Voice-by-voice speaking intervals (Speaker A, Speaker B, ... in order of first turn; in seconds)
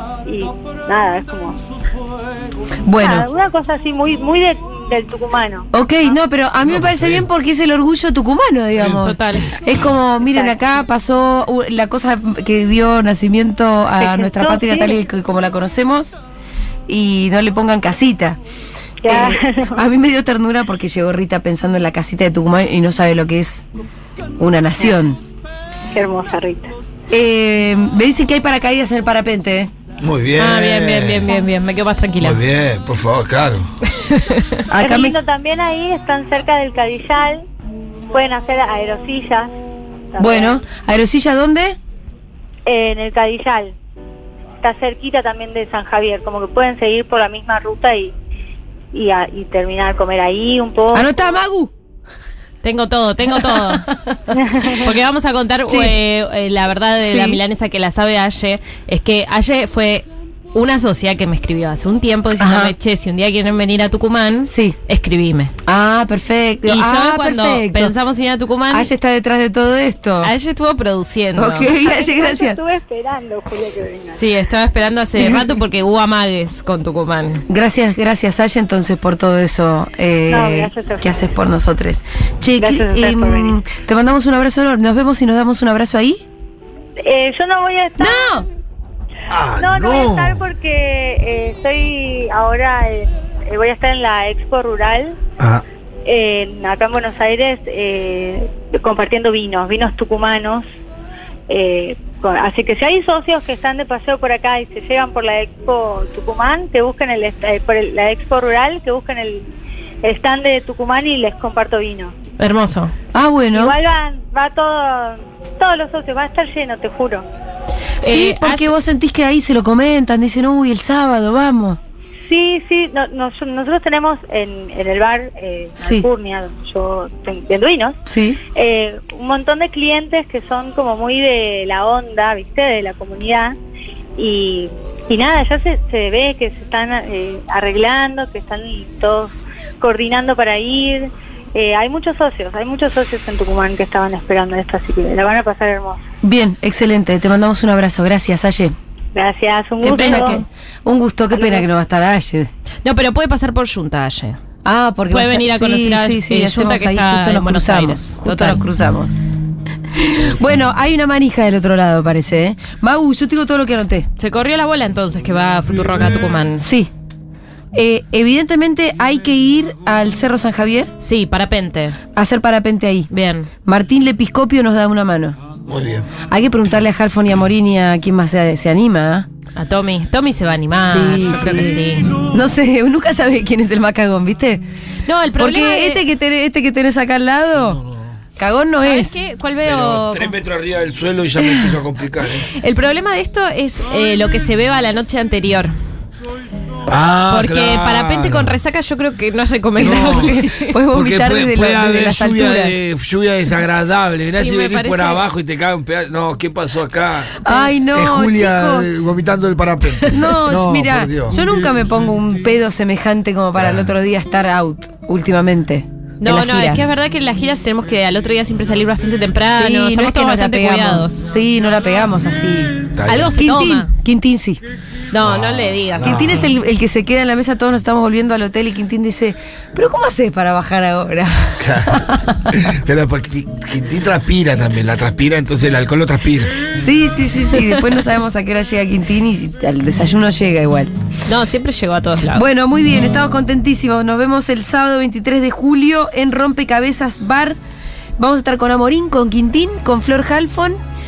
Speaker A: 0.2-1.6, 3.0-5.7, 14.0-14.9, 19.0-19.8, 25.9-26.7, 34.8-37.5, 38.1-39.5, 40.1-40.6, 42.7-43.8, 44.6-48.1, 48.9-51.2, 54.3-54.9, 71.7-74.2, 80.3-81.2, 82.6-83.6, 87.0-88.5, 89.6-95.2, 96.0-100.7, 101.5-112.2, 113.5-117.3, 122.2-128.0, 128.5-133.6, 134.2-146.0, 149.1-150.4, 151.3-151.7
Speaker B: 2.9-3.3, 5.7-16.2, 16.9-18.4, 19.1-23.6, 24.4-25.2, 27.1-29.7, 34.7-35.1, 40.2-41.8, 50.9-51.7, 53.4-54.1, 55.7-56.0, 57.0-57.4, 62.4-62.8, 64.5-64.8, 65.7-67.9, 68.7-70.3, 71.3-72.6, 77.5-86.2, 88.0-88.5, 113.1-113.8, 118.0-121.8, 125.8-126.1, 128.1-128.4, 146.2-148.8, 149.8-152.5, 154.7-159.2, 159.9-164.1, 166.6-166.9, 167.7-170.9, 172.2-173.1, 173.6-175.4, 176.3-179.3, 180.8-184.6, 185.4-187.8, 188.4-189.2, 200.0-202.8, 207.4-208.9, 210.1-216.9, 219.5-222.7, 223.3-224.6, 226.0-232.3, 236.8-240.9, 242.3-247.6, 248.2-250.8
Speaker C: 6.7-7.3, 30.0-31.2, 32.2-33.7, 89.3-90.5, 175.7-176.1, 187.6-188.2, 189.6-192.5, 196.9-198.6, 199.8-200.4, 200.9-211.4, 213.6-213.9, 222.9-223.4, 225.2-226.5, 231.6-236.6
Speaker D: 9.0-9.5, 30.4-32.4, 33.9-34.6, 52.6-53.9, 54.8-65.5, 66.7-68.9, 70.2-71.7, 74.2-77.4, 112.4-112.9, 118.0-118.7, 149.8-150.4, 152.8-154.4, 155.1-158.6, 164.2-166.7, 171.0-172.0, 173.1-173.5, 179.6-182.2, 185.1-186.0, 188.8-190.4, 192.6-195.7, 197.3-200.8, 204.4-205.2, 216.2-221.3, 223.1-223.9, 225.1-226.4, 237.6-237.9, 241.3-242.5